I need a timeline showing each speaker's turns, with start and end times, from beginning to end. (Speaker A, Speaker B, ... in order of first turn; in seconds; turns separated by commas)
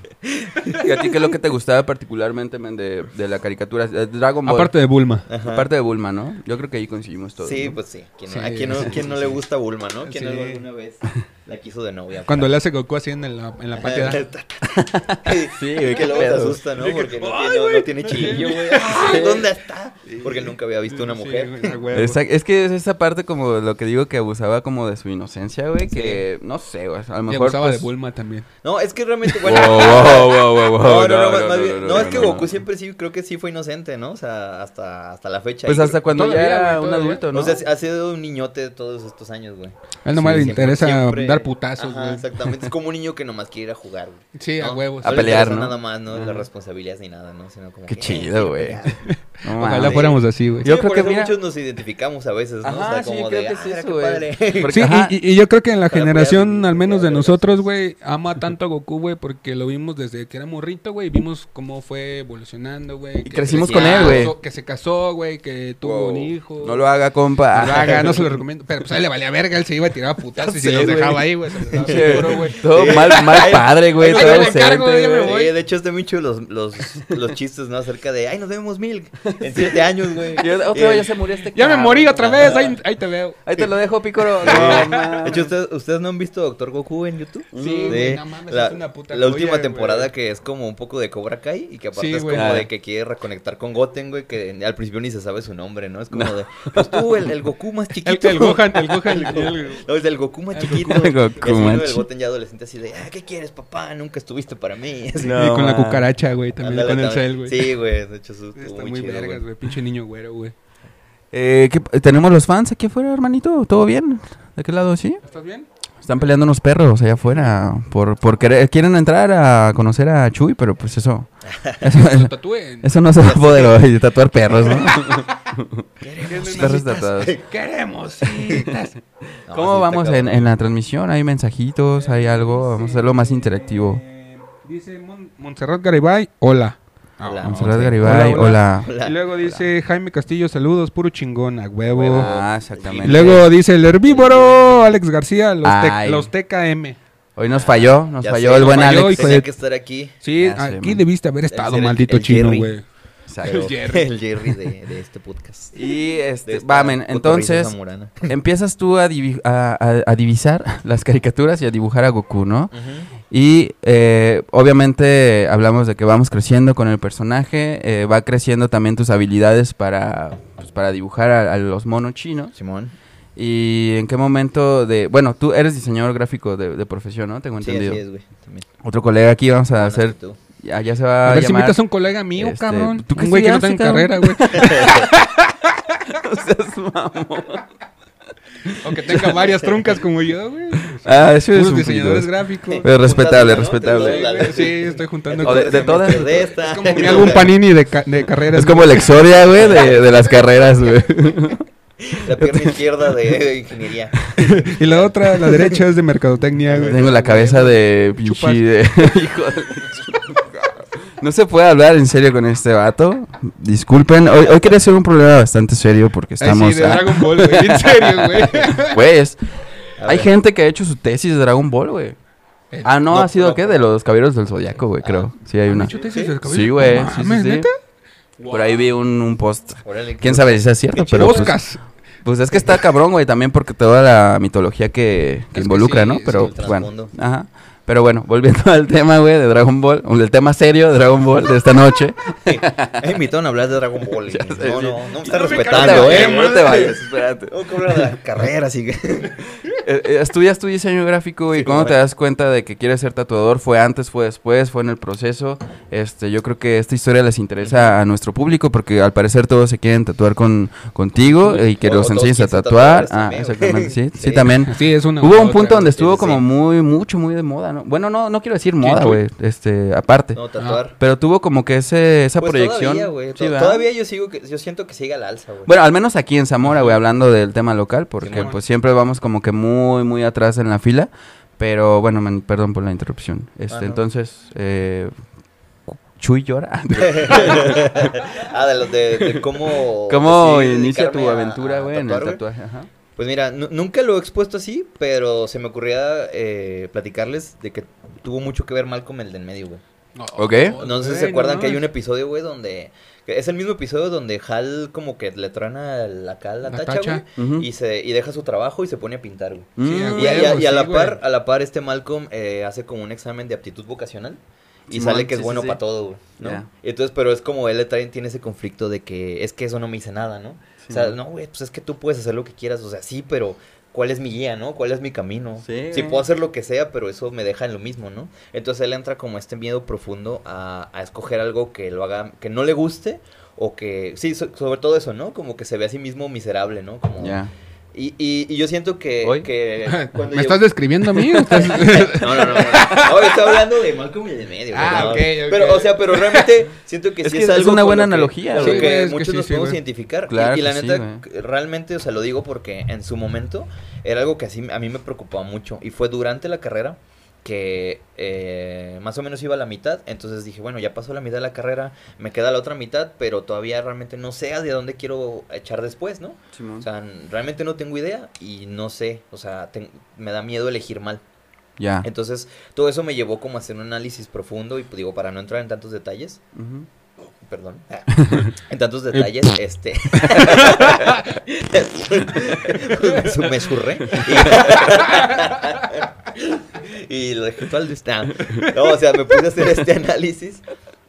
Speaker A: 0.4-0.8, Speaker B: 0.7-4.7, Speaker C: 4.4-5.2, Speaker A: 5.3-5.7, Speaker B: 5.4-7.8, Speaker A: 7.4-12.5, Speaker C: 8.3-9.4, Speaker C: 10.1-10.6, Speaker C: 12.3-14.2, Speaker A: 13.7-21.8, Speaker B: 14.6-16.6, Speaker C: 16.8-19.5, Speaker B: 18.4-19.4, Speaker C: 20.1-22.2, Speaker B: 21.9-27.9, Speaker A: 25.9-26.2, Speaker C: 27.3-28.5, Speaker A: 28.6-36.0, Speaker B: 29.4-32.5, Speaker B: 35.6-37.6, Speaker C: 36.1-37.2, Speaker A: 37.3-49.1, Speaker C: 40.0-42.3, Speaker B: 40.1-40.6, Speaker C: 44.3-45.5, Speaker B: 45.0-46.5, Speaker B: 47.9-48.8, Speaker C: 48.9-50.7, Speaker B: 49.4-50.1, Speaker A: 49.8-54.9, Speaker B: 50.6-51.3, Speaker B: 52.6-55.2, Speaker C: 54.7-66.8, Speaker A: 55.9-57.6, Speaker B: 63.2-64.3, Speaker A: 63.5-64.3, Speaker B: 65.8-68.3, Speaker C: 67.5-75.5, Speaker B: 70.4-75.3, Speaker A: 71.8-81.1, Speaker B: 79.3-82.8, Speaker C: 81.5-83.7, Speaker A: 82.2-82.7, Speaker B: 83.4-85.5, Speaker A: 84.4-105.4, Speaker C: 84.4-85.3, Speaker B: 87.5-88.1, Speaker C: 87.5-90.1, Speaker C: 91.9-92.6, Speaker B: 92.3-92.7, Speaker B: 96.1-97.0, Speaker C: 98.0-99.8, Speaker C: 100.5-101.5, Speaker B: 100.8-102.0, Speaker B: 105.2-106.1, Speaker C: 105.3-107.7, Speaker A: 106.6-109.4, Speaker C: 108.5-110.5, Speaker B: 111.3-115.2, Speaker C: 115.2-115.7, Speaker B: 116.0-125.8, Speaker A: 121.5-121.8, Speaker C: 121.8-123.0, Speaker A: 123.2-123.8, Speaker C: 124.7-125.3, Speaker A: 126.0-127.4, Speaker C: 126.2-129.0, Speaker B: 126.4-127.3, Speaker A: 129.5-130.5, Speaker B: 129.5-134.0, Speaker C: 132.0-142.3, Speaker A: 137.2-139.6, Speaker B: 137.4-138.9, Speaker A: 141.9-143.5, Speaker B: 142.0-143.4, Speaker C: 143.0-147.0, Speaker A: 144.0-144.9, Speaker B: 145.6-146.3, Speaker B: 147.3-149.3, Speaker A: 147.5-150.1, Speaker C: 148.5-149.5, Speaker C: 150.2-152.8, Speaker B: 150.4-151.0, Speaker A: 151.5-152.7, Speaker B: 153.3-153.7, Speaker C: 153.4-154.6, Speaker A: 153.4-155.8, Speaker B: 155.7-162.7, Speaker A: 156.4-158.3, Speaker A: 162.7-163.1, Speaker B: 163.3-172.5, Speaker A: 172.5-172.9, Speaker B: 173.3-178.0, Speaker A: 177.6-178.7, Speaker B: 178.8-181.8, Speaker A: 179.7-180.4, Speaker C: 181.2-186.0, Speaker B: 182.3-185.2, Speaker A: 184.6-184.9, Speaker B: 186.1-187.6, Speaker B: 188.6-189.4, Speaker C: 188.8-192.9, Speaker B: 190.9-194.5, Speaker A: 192.7-197.6, Speaker C: 193.8-199.4, Speaker B: 195.4-196.5, Speaker B: 198.5-201.6, Speaker A: 199.5-200.0, Speaker A: 202.0-205.8, Speaker B: 202.4-202.8, Speaker C: 204.4-208.6, Speaker A: 206.7-207.0, Speaker B: 206.8-210.5, Speaker B: 211.2-219.4, Speaker C: 216.4-219.0, Speaker A: 220.0-220.3, Speaker B: 220.1-222.2, Speaker B: 222.8-227.7, Speaker A: 223.1-223.9, Speaker A: 225.0-225.3, Speaker C: 225.7-227.7, Speaker A: 225.8-226.3, Speaker C: 228.4-228.8, Speaker B: 228.5-231.6, Speaker A: 229.8-231.5, Speaker C: 231.1-231.8, Speaker B: 232.2-243.1, Speaker C: 235.5-236.5, Speaker A: 236.3-237.1, Speaker A: 242.4-249.4, Speaker B: 244.2-248.2, Speaker C: 245.2-247.0, Speaker B: 249.7-270.4, Speaker A: 251.5-252.0, Speaker A: 257.6-257.9, Speaker C: 261.4-261.6, Speaker A: 261.8-264.5, Speaker C: 264.6-266.0, Speaker A: 265.9-266.4, Speaker C: 268.8-269.2, Speaker A: 270.3-271.0, Speaker B: 271.0-273.8, Speaker A: 272.4-275.7, Speaker B: 275.6-285.1, Speaker A: 278.2-278.5, Speaker C: 278.2-278.6, Speaker A: 283.7-284.0, Speaker B: 285.9-288.3, Speaker A: 287.0-292.4, Speaker B: 289.2-289.5, Speaker B: 290.1-292.9, Speaker A: 293.1-299.8, Speaker C: 300.1-301.9, Speaker B: 300.4-300.8, Speaker A: 300.8-337.4, Speaker C: 306.7-307.2, Speaker B: 307.4-307.7, Speaker B: 309.8-310.6, Speaker C: 309.8-311.2, Speaker B: 314.9-315.8, Speaker B: 316.4-316.7, Speaker B: 320.8-321.2, Speaker B: 325.6-326.2, Speaker B: 337.2-337.5, Speaker A: 337.9-340.7, Speaker C: 339.9-343.6, Speaker B: 341.2-341.8, Speaker A: 341.4-371.2, Speaker C: 344.7-346.5, Speaker B: 347.2-348.9, Speaker C: 348.5-349.8, Speaker B: 350.3-351.2, Speaker B: 366.5-366.9, Speaker B: 371.8-372.1, Speaker A: 372.0-376.4, Speaker B: 376.5-376.9, Speaker A: 377.4-390.6, Speaker B: 378.2-378.5, Speaker B: 384.1-384.5